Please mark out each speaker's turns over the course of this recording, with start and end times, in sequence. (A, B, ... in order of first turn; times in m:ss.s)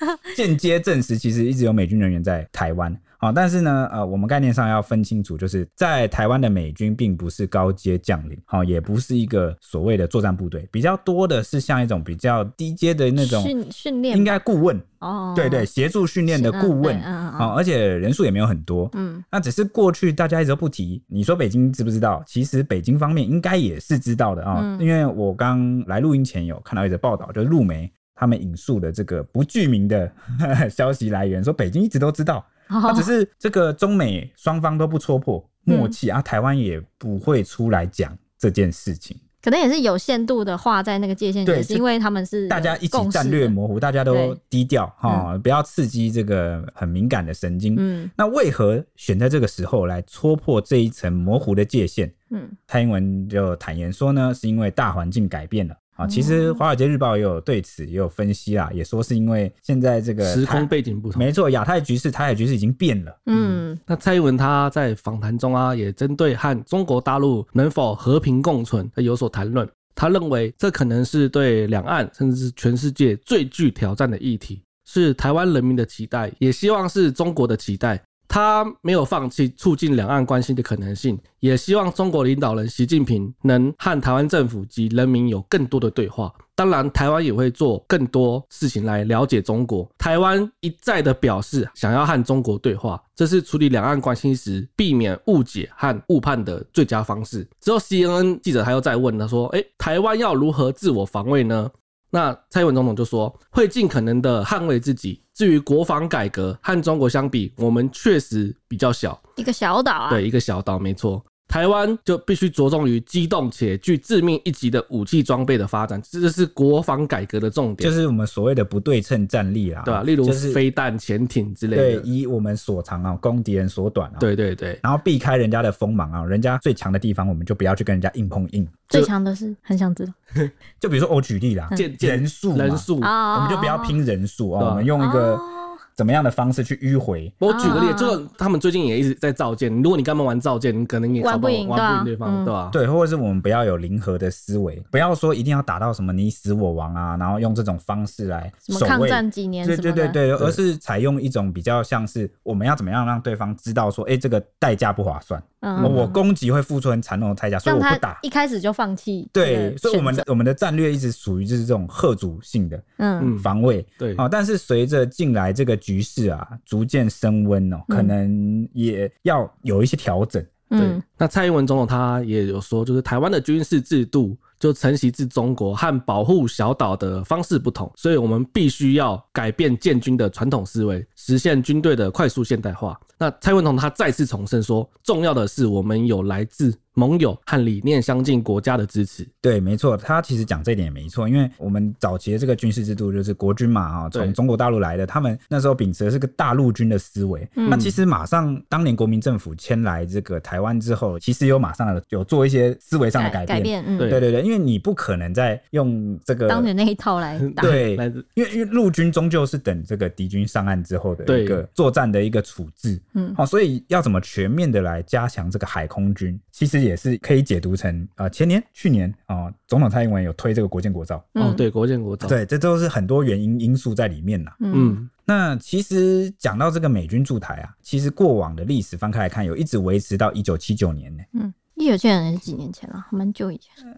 0:00.3-0:13.5 A
0:13.2-0:14.4 B
0:14.1-0:39.2 A
0:15.0-0:15.7 B
0:16.3-0:17.5 B
0:18.9-0:19.2 B
0:24.5-0:24.9 B
0:32.7-0:33.1 B
0:35.7-0:35.9 B
0:39.4-0:43.6 B
0:41.4-0:41.8 A
0:42.5-0:52.1 A
0:44.1-0:44.4 B
0:47.8-0:48.1 B
0:52.3-0:52.6 B
0:52.7-1:03.2 A
0:56.0-0:56.6 B
1:00.2-1:01.3 C
1:03.3-1:03.8 B
1:03.3-1:49.2 C
1:49.4-1:50.2 B
1:50.1-1:57.9 C
1:57.8-2:00.6 A
1:59.8-2:02.1 C
2:01.7-2:04.3 A
2:04.2-2:04.8 C
2:04.8-2:08.9 A
2:08.9-2:10.1 B
2:10.8-2:17.8 A
2:11.8-2:13.1 C
2:13.0-2:14.0 B
2:14.6-2:14.9 C
2:15.0-2:15.8 B
2:17.4-2:22.8 C
2:17.5-2:18.2 B
2:21.2-2:22.5 B
2:22.7-2:38.2 A
2:28.7-2:30.2 B
2:35.6-2:36.2 B
2:35.8-2:36.1 C
2:37.6-2:40.2 B
2:39.3-2:50.6 A
2:43.0-2:43.3 B
2:43.2-2:44.2 C
2:50.7-2:51.0 B
2:50.8-3:09.3 C
3:09.4-3:26.7 A
3:17.6-3:17.9 B
3:17.7-3:17.9 C
3:23.2-3:24.2 B
3:26.5-3:27.8 B
3:27.4-3:28.2 C
3:27.6-3:41.3 A
3:31.2-3:31.6 C
3:41.4-3:41.6 B
3:41.4-3:42.4 C
3:42.2-3:51.2 A
3:44.6-3:45.0 B
3:44.7-3:45.1 C
3:51.4-3:53.7 B